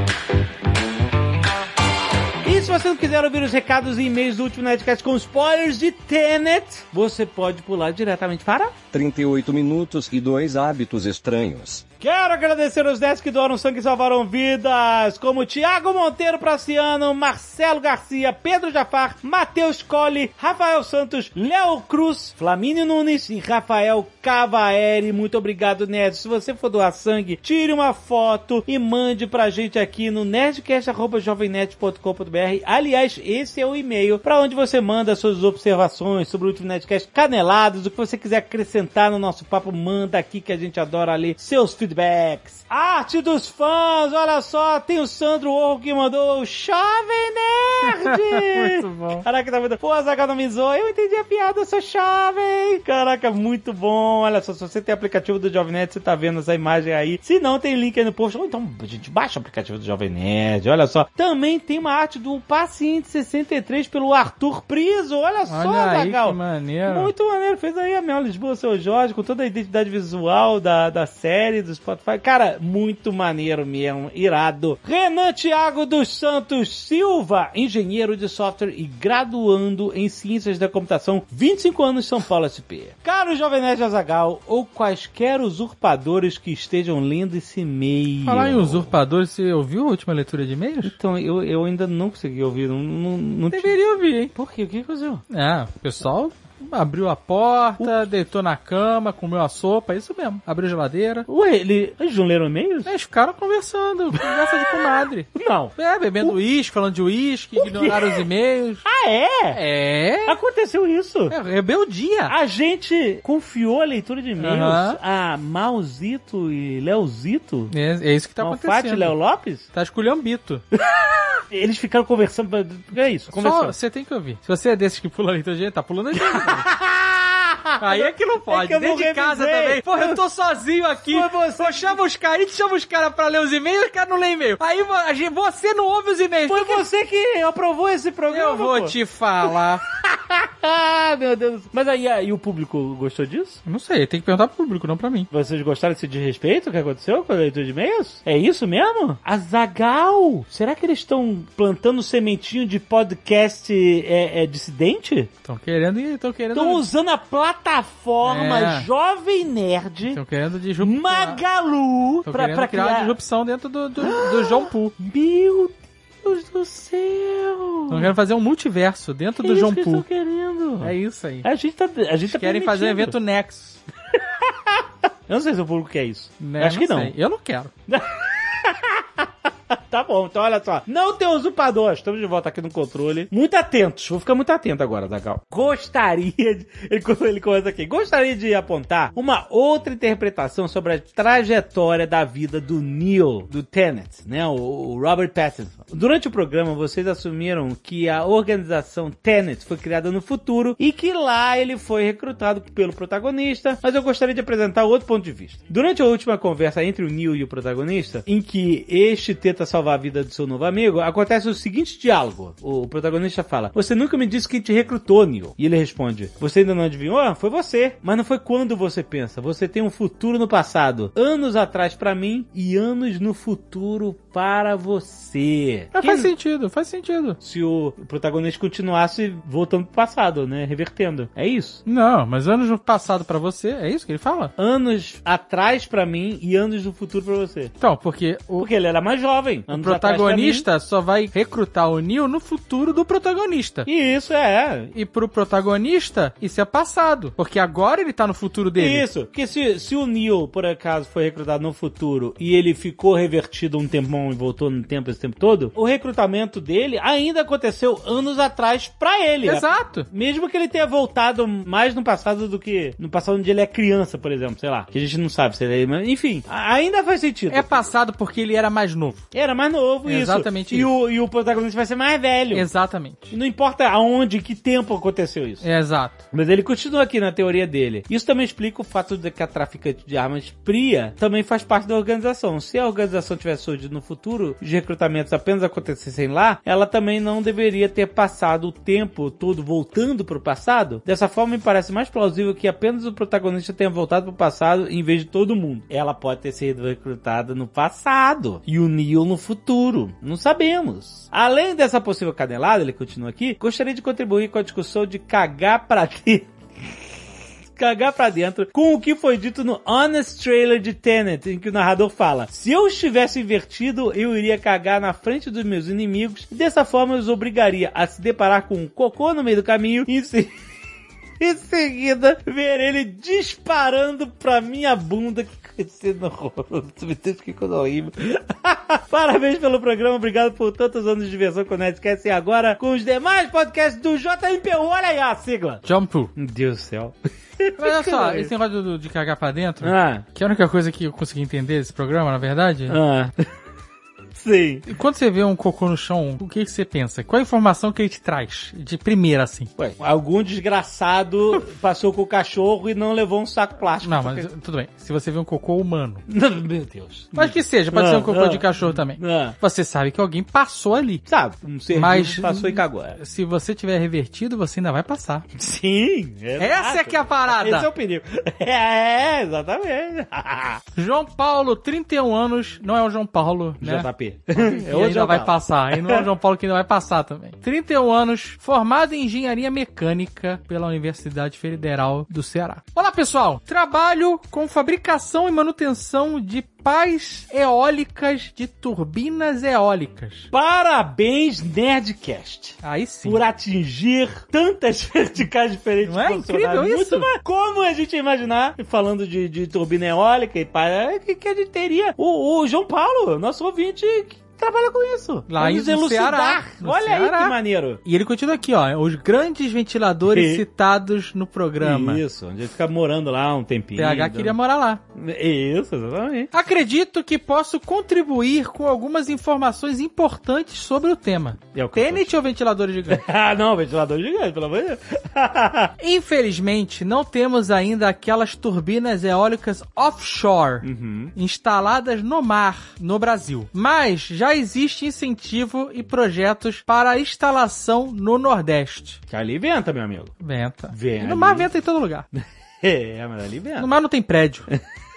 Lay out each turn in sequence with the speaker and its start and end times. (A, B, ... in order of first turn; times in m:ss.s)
0:02.4-0:08.7 A
0:08.9-0:11.8 B
0:12.0-1:28.9 A
0:48.3-0:49.2 C
1:05.5-1:07.1 C
1:28.2-1:30.9 C
1:30.8-1:33.7 A
1:33.5-1:34.3 C
1:34.3-1:35.2 A
1:35.3-1:41.2 C
1:41.3-1:42.9 A
1:42.9-1:48.8 C
1:44.2-1:44.7 A
1:45.4-1:46.4 A
1:47.6-1:48.2 A
1:48.8-1:49.6 A
1:49.5-1:50.4 C
1:50.2-1:51.3 A
1:51.3-1:52.3 C
1:52.3-1:57.7 A
1:54.4-1:55.0 C
1:57.7-1:59.1 C
1:58.4-1:59.7 A
1:59.7-2:00.6 C
2:01.5-2:03.7 A
2:03.3-2:06.7 C
2:06.2-2:10.2 A
2:07.8-2:16.8 C
2:11.1-2:12.0 A
2:16.5-2:18.9 A
2:18.3-2:19.8 C
2:19.4-2:23.6 A
2:23.6-2:25.3 C
2:25.3-2:35.3 A
2:35.4-2:36.8 C
2:36.5-2:40.2 A
2:38.2-2:38.9 C
2:40.1-2:41.4 C
2:40.8-2:43.1 A
2:42.2-2:44.9 C
2:44.0-2:48.1 A
2:47.9-2:50.1 C
2:49.4-2:50.9 A
2:50.8-2:51.5 C
2:51.4-2:53.2 A
2:52.3-2:53.8 C
2:54.4-2:57.1 A
2:56.4-2:57.7 C
2:57.9-3:46.3 A
3:45.9-3:47.4 C
3:47.4-3:51.8 A
3:51.9-3:54.5 C
3:54.6-3:57.7 A
3:57.8-3:58.7 C
3:58.6-4:00.6 A
3:59.7-4:03.9 C
4:03.9-4:04.9 A
4:04.9-4:09.1 C
4:08.8-4:27.9 A
4:19.4-4:20.1 C
4:27.5-4:29.3 C
4:29.3-4:32.6 A
4:30.1-4:30.9 C
4:32.5-4:33.4 C
4:33.3-4:35.6 A
4:35.6-4:36.2 C
4:36.3-5:06.5 A
5:07.8-5:20.5 A
5:21.4-5:38.5 A
5:35.8-5:36.3 C
5:37.8-5:43.0 C
5:39.8-5:40.2 A
5:42.9-5:43.4 A
5:44.4-5:44.9 A
5:44.9-5:49.7 C
5:49.8-5:54.5 A
5:54.0-5:56.2 C
5:56.3-5:59.5 A
5:57.4-6:01.2 C
6:01.3-6:03.2 A
6:01.9-6:05.4 C
6:05.6-6:10.8 A
6:06.6-6:07.9 C
6:11.0-6:30.5 C
6:13.8-6:15.5 A
6:30.5-6:48.0 A
6:32.8-6:33.4 C
6:36.0-6:37.3 C
6:45.5-6:52.2 C
6:50.3-6:50.6 A
6:51.8-6:54.6 A
6:54.0-6:55.0 C
6:55.1-6:56.5 A
6:56.5-7:03.2 C
7:01.7-7:02.3 A
7:03.1-7:05.9 A
7:06.0-7:19.2 C
7:10.8-7:11.3 A
7:19.3-7:20.3 A
7:20.4-7:22.3 C
7:20.9-7:21.7 A
7:22.8-7:23.9 A
7:23.8-7:24.7 C